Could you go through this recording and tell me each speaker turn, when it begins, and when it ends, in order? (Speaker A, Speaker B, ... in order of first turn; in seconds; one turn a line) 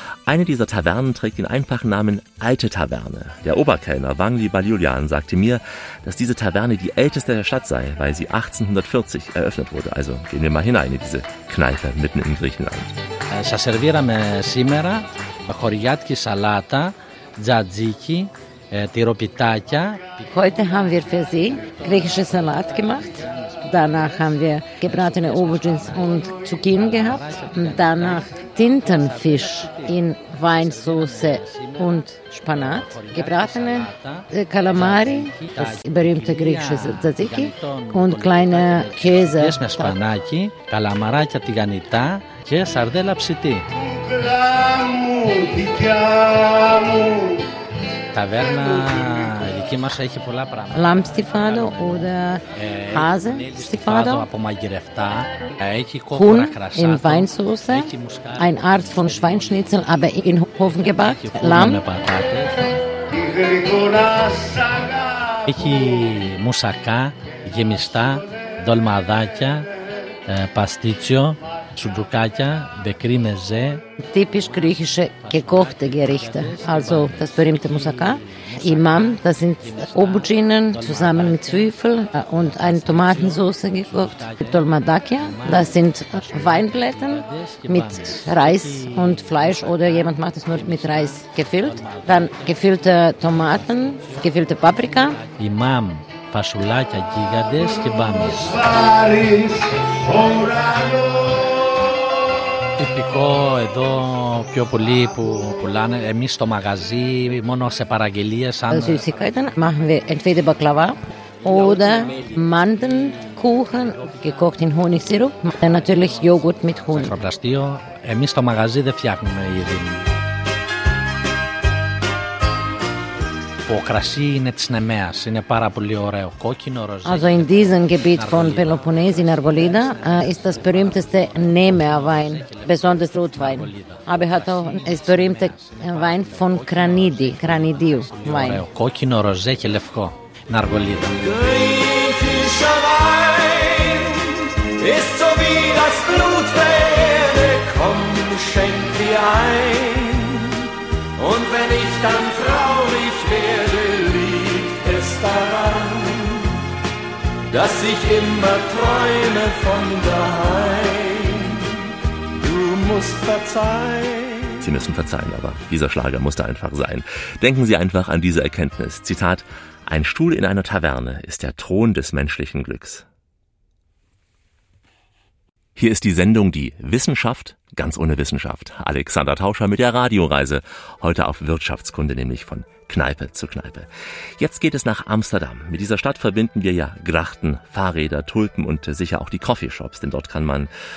Speaker A: 0.3-13.0
Speaker B: 13.3-20.1
Speaker C: 20.3-23.1
Speaker B: 21.6-24.2
Speaker C: 23.6-40.0
Speaker B: 24.7-43.7
Speaker B: 48.1-62.7
Speaker C: 50.7-54.3
Speaker C: 56.1-61.9
Speaker B: 65.5-69.7
Speaker B: 70.3-73.8
Speaker C: 74.1-95.2
Speaker B: 74.5-98.7
Speaker B: 102.8-109.1
Speaker C: 108.7-117.2
Speaker B: 111.5-113.4
Speaker B: 115.8-120.0
Speaker B: 123.7-141.2
Speaker C: 127.0-138.7
Speaker D: 141.2-150.5
Speaker D: 151.2-156.5
Speaker D: 157.5-161.7
Speaker D: 162.4-164.7
Speaker A: 164.6-173.1
Speaker A: 175.8-190.7